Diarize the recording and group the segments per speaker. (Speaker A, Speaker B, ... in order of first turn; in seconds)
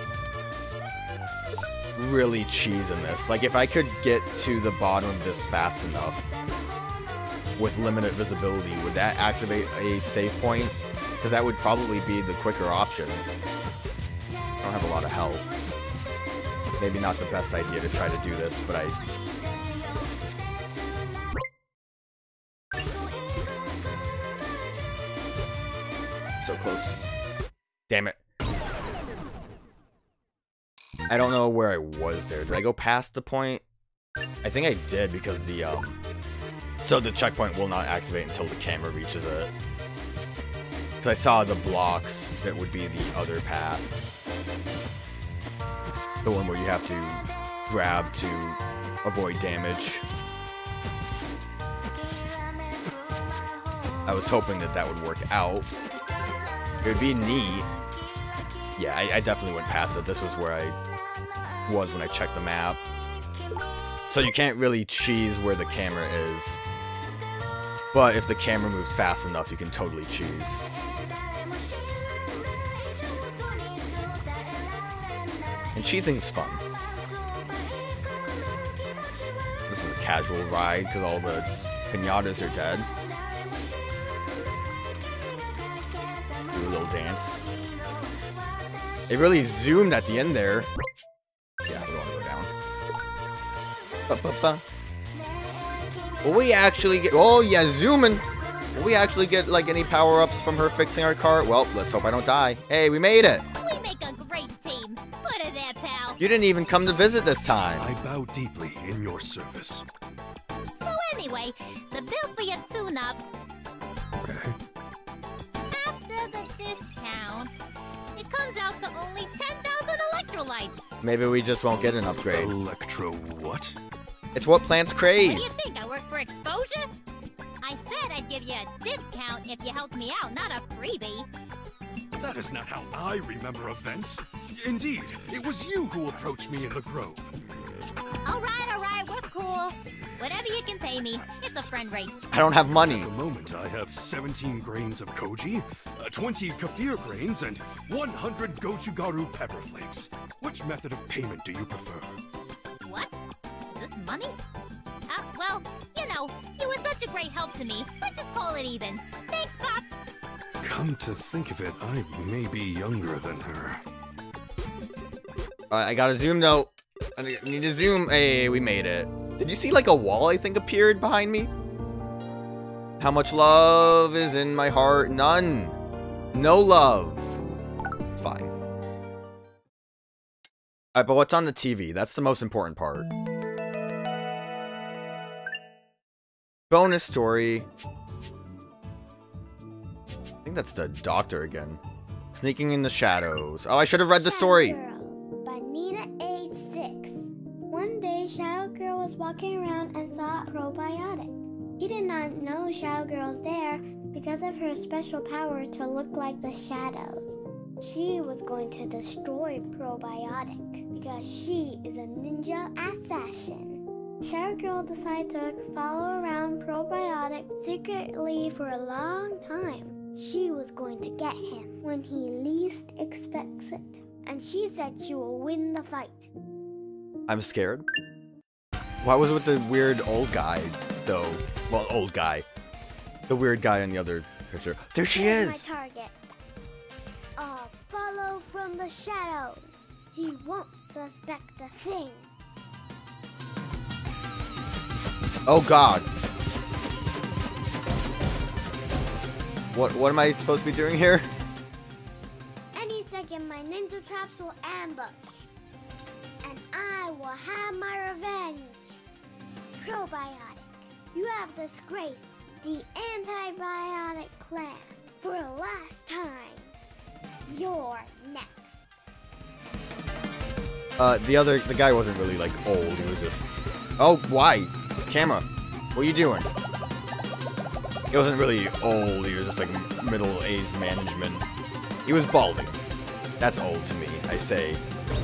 Speaker A: 2.0-6.2, 7.6-13.2, 14.6-15.5, 16.8-19.0, 26.4-27.0, 27.9-28.2, 31.1-33.6, 34.4-36.0, 36.8-39.5, 41.0-43.9, 46.2-50.0, 54.1-55.7, 56.8-57.7, 58.8-60.8, 61.7-62.8, 64.1-66.6, 67.9-70.6, 75.7-76.6, 79.7-82.9, 86.5-87.4, 89.1-90.7, 91.7-92.5, 94.1-94.6, 96.2-103.5, 106.2-107.9, 121.0-122.5, 124.3-125.5, 142.3-143.1, 165.7-171.5, 173.0-175.8, 176.3-177.4, 178.2-178.5, 180.9-183.1, 186.7-187.7, 190.4-191.8, 192.3-194.8, 227.3-227.9, 229.0-232.5, 233.3-235.7, 245.5-246.1, 249.7-251.3, 271.0-273.5, 274.0-276.5, 278.1-281.5, 282.1-282.8, 283.4-284.8
Speaker B: 103.6-106.2, 110.7-113.2, 115.6-120.9, 125.2-126.9, 127.6-131.3, 138.2-142.1, 152.8-153.1, 153.7-154.3, 155.1-160.0
Speaker C: 107.8-109.8, 114.2-114.6, 122.3-123.8, 132.2-137.3, 142.8-152.2, 160.6-163.8
Speaker D: 194.1-226.3, 235.1-236.3, 237.4-242.3, 252.8-255.5, 256.4-259.0, 259.8-266.8, 267.5-269.1